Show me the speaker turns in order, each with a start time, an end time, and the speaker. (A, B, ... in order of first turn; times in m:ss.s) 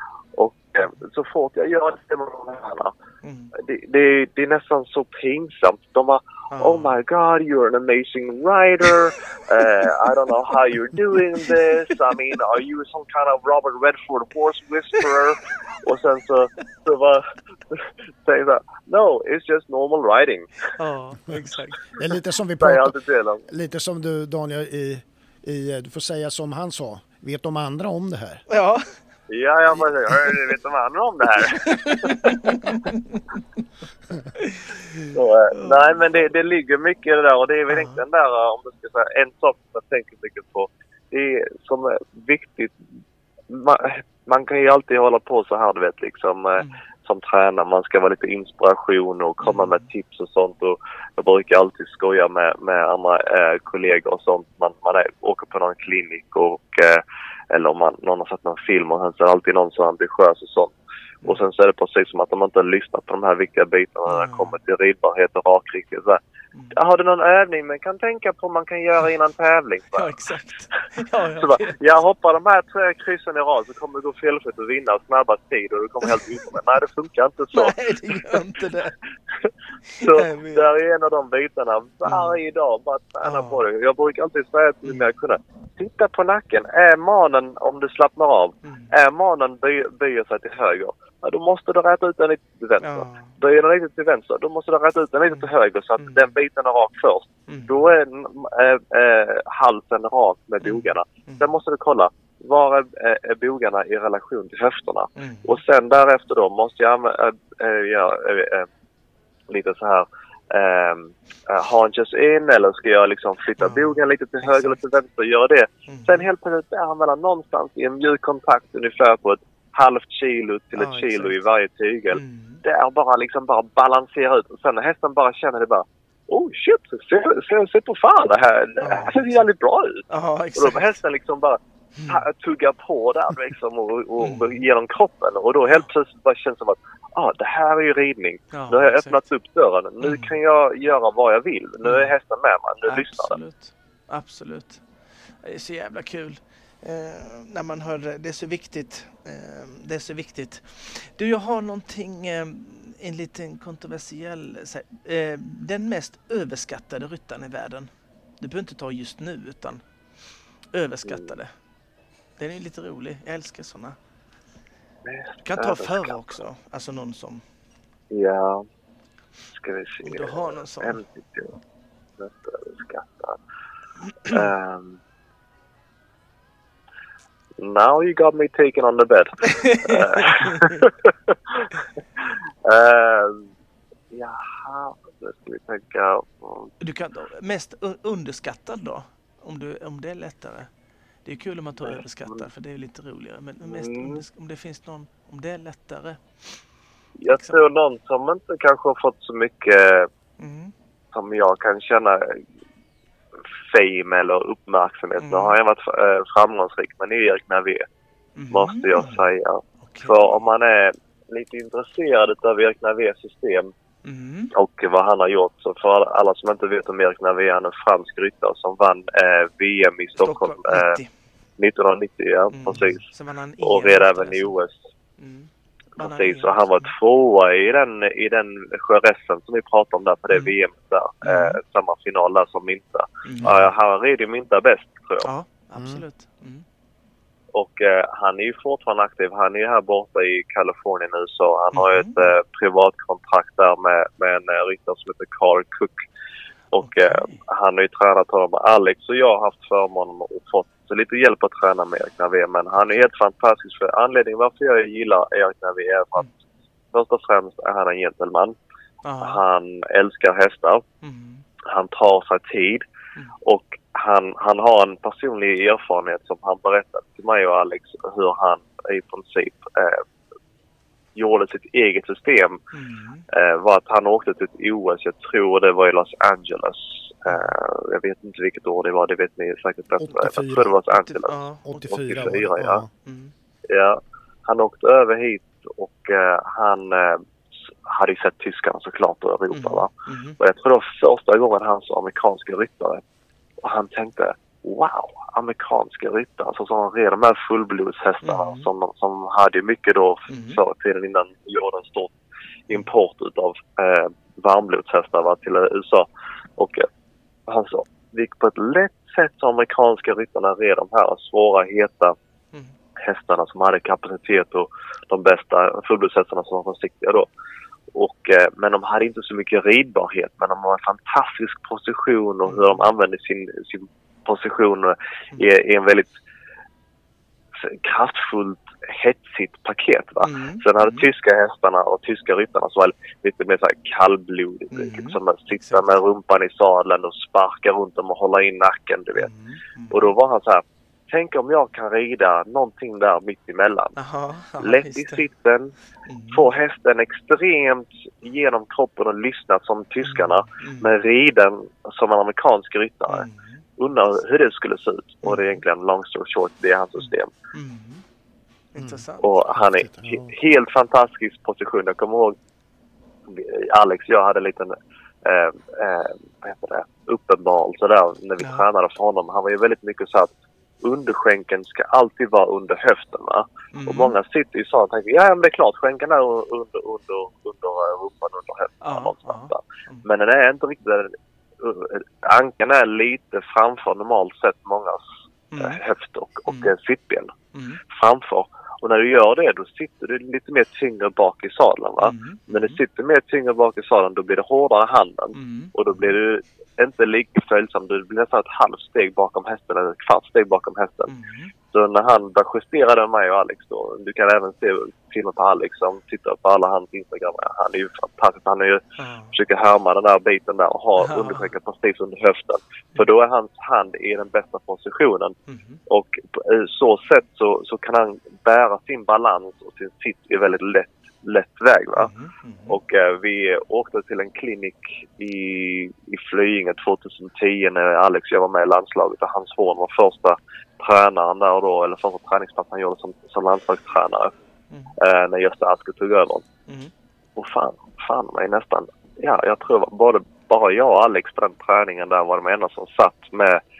0:00.3-0:02.9 A
0:03.2-0:03.5 B
0:03.5-0:20.7 A
0:06.5-0:07.0 B
0:11.2-0:12.0 B
0:20.7-0:21.9 B
0:22.0-0:23.0 C
0:22.6-0:23.4 A
0:23.5-0:28.4 C
0:28.5-0:29.0 B
0:29.3-0:32.6 A
0:29.7-0:30.4 B
0:31.4-0:33.4 B
0:34.3-0:36.3 B
0:35.1-0:42.8 A
0:37.7-0:38.0 B
0:43.5-1:00.7 A
0:49.4-0:49.8 B
1:01.2-1:06.2 A
1:04.1-1:04.5 B
1:06.5-1:06.8 B
1:06.7-1:10.2 A
1:09.9-1:11.8 B
1:11.4-1:18.4 A
1:17.5-1:18.9 B
1:19.4-1:48.7 A
1:19.8-1:20.7 B
1:22.0-1:22.4 B
1:23.2-1:23.6 B
1:28.6-1:28.9 B
1:32.8-1:33.4 B
1:35.3-1:36.3 B
1:37.5-1:37.9 B
1:40.6-1:41.5 B
1:45.2-1:45.6 B
1:49.5-2:23.4 A
1:53.6-1:54.8 B
1:55.9-1:56.3 B
2:00.8-2:01.4 B
2:02.1-2:02.6 B
2:08.8-2:09.5 B
2:10.1-2:11.0 B
2:11.9-2:12.2 B
2:14.2-2:14.6 B
2:18.5-2:19.2 B
2:20.0-2:20.3 B
2:21.8-2:22.1 B
2:22.8-2:24.8 B
2:25.4-2:39.8 B
2:40.7-2:41.5 B
2:41.0-2:41.3 A
2:42.4-2:44.0 B
2:45.0-2:46.3 A
2:45.4-2:47.4 B
2:48.1-2:48.6 A
2:49.5-2:51.6 A
2:50.0-2:51.0 B
2:52.2-2:53.4 A
2:54.1-2:54.5 B
2:54.3-2:55.0 A
2:57.6-3:01.7 A
2:59.4-3:00.9 B
3:02.2-3:03.5 A
3:04.1-3:06.7 A
3:06.8-3:10.7 B
3:11.2-3:16.6 B
3:11.9-3:12.4 A
3:13.7-3:14.2 A
3:17.2-3:20.1 A
3:17.3-3:17.6 B
3:20.4-3:20.7 B
3:21.1-3:22.4 A
3:23.7-3:27.8 A
3:25.2-3:25.6 B
3:28.4-3:30.5 B
3:28.5-3:33.7 A
3:34.0-3:34.5 B
3:34.5-3:41.0 A
3:40.2-3:41.1 B
3:41.6-3:43.0 A
3:42.5-3:44.6 B
3:43.6-3:44.7 A
3:45.2-3:46.9 B
3:46.0-3:55.3 A
3:50.3-3:50.6 B
3:51.2-3:51.6 B
3:53.2-3:53.6 B
3:53.4-3:53.7 C
3:55.2-3:56.6 B
3:55.8-3:56.0 C
3:57.5-4:06.0 A
4:01.7-4:02.1 B
4:06.7-4:16.3 A
4:06.8-4:07.4 B
4:12.8-4:13.0 B
4:16.9-4:18.6 A
4:19.0-4:19.4 B
4:19.2-4:20.8 A
4:21.0-4:21.4 B
4:21.6-4:22.8 A
4:23.4-4:30.0 A
4:31.1-4:32.6 A
4:32.7-4:33.2 B
4:33.3-4:42.8 A
4:40.0-4:40.7 C
4:40.9-4:42.3 B
4:41.7-4:42.9 C
4:43.0-4:43.3 B
4:43.7-4:47.2 A
4:47.8-4:49.9 A
4:49.5-4:50.4 B
4:50.4-4:53.0 A
4:53.6-5:02.1 A
4:58.2-4:58.7 B
5:00.3-5:00.6 B
5:02.7-5:06.8 A
5:07.5-5:12.1 A
5:13.0-5:17.3 A
5:17.9-5:26.1 A
5:22.4-5:22.8 B
5:27.6-5:39.3 A
5:30.2-5:31.1 B
5:34.7-5:35.9 B
5:39.2-5:40.1 B
5:39.9-5:43.9 A
5:44.0-5:45.2 B
5:44.6-5:45.7 A
5:46.0-5:46.5 B
5:46.3-5:57.3 A
5:50.0-5:50.9 B
5:53.1-5:53.6 B
5:55.2-5:55.6 B
5:57.0-5:58.0 B
5:58.7-5:59.4 B
5:58.8-6:00.3 C
5:59.2-6:02.4 A
6:03.3-6:10.3 A
6:08.4-6:08.6 B
6:10.8-6:25.0 A
6:13.7-6:14.1 B
6:18.8-6:20.0 B
6:25.5-6:25.8 B
6:25.6-6:27.3 A
6:26.5-6:26.7 B
6:27.5-6:27.8 B
6:27.9-6:41.1 A
6:32.0-6:32.8 B
6:35.3-6:36.1 B
6:41.1-6:41.5 B
6:41.7-6:48.8 A
6:49.0-6:49.4 B
6:49.3-6:55.4 A
6:51.0-6:51.5 B
6:55.5-6:55.8 B
6:55.9-7:02.1 A
7:02.0-7:02.8 B
7:02.7-7:14.3 A
7:15.0-7:16.4 A
7:16.7-7:16.9 B
7:17.4-7:23.6 A